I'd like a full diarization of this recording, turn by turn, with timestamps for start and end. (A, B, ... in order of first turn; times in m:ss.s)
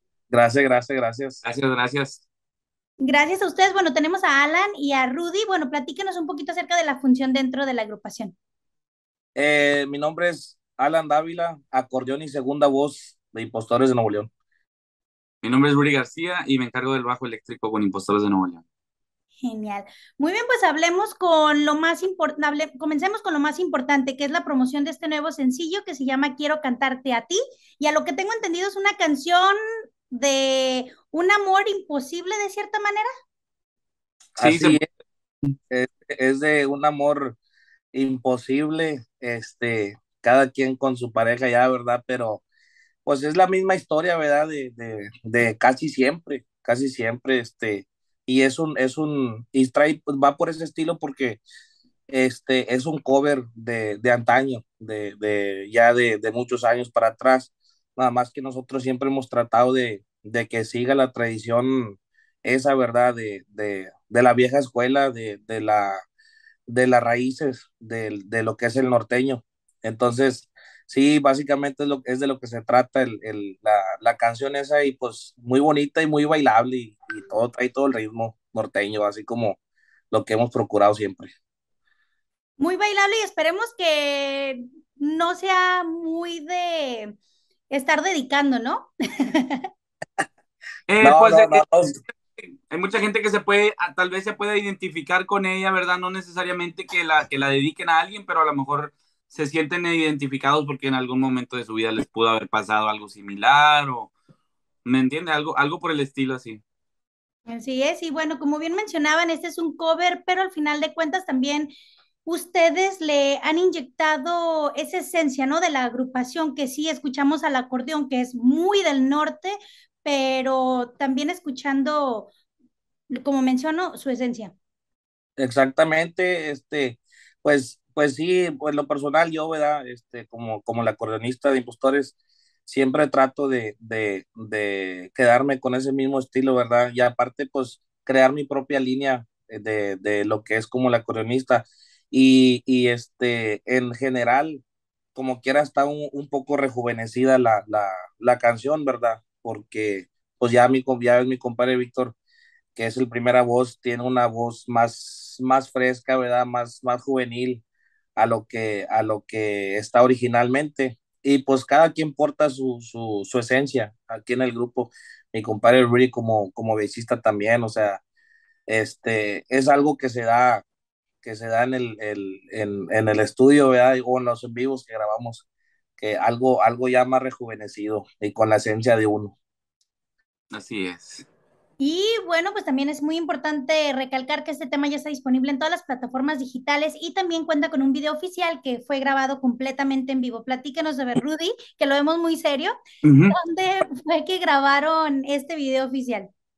0:00.3-0:01.4 A
0:01.4-0:02.2 B
0:03.0-0:08.3 C
0:09.4-0:14.3 A
0:15.4-0:18.6 B
0:19.4-0:29.6 C
0:30.1-0:33.1 C
0:34.4-0:34.8 A
0:34.4-0:34.8 B
0:35.7-0:37.4 A
0:37.9-0:42.4 A
0:43.0-0:51.4 A
0:52.1-1:06.0 A
1:06.7-1:19.6 A
1:20.1-1:21.3 A
1:22.6-1:27.1 C
1:27.7-1:29.7 C
1:30.9-1:31.6 B
1:31.0-1:32.0 A
1:32.7-1:44.1 B
1:44.8-1:46.6 B
1:47.5-1:51.7 C
1:52.3-2:02.3 C
2:03.2-2:04.5 C
2:05.4-2:12.1 A
2:12.7-2:24.6 A
2:25.2-2:32.2 A
2:32.8-2:37.6 A
2:38.2-2:48.0 A
2:48.7-2:50.6 A
2:51.2-2:55.4 A
2:56.0-2:59.3 A
3:00.5-3:01.3 B
3:01.8-3:12.7 C
3:13.0-3:13.4 B
3:13.3-3:16.3 C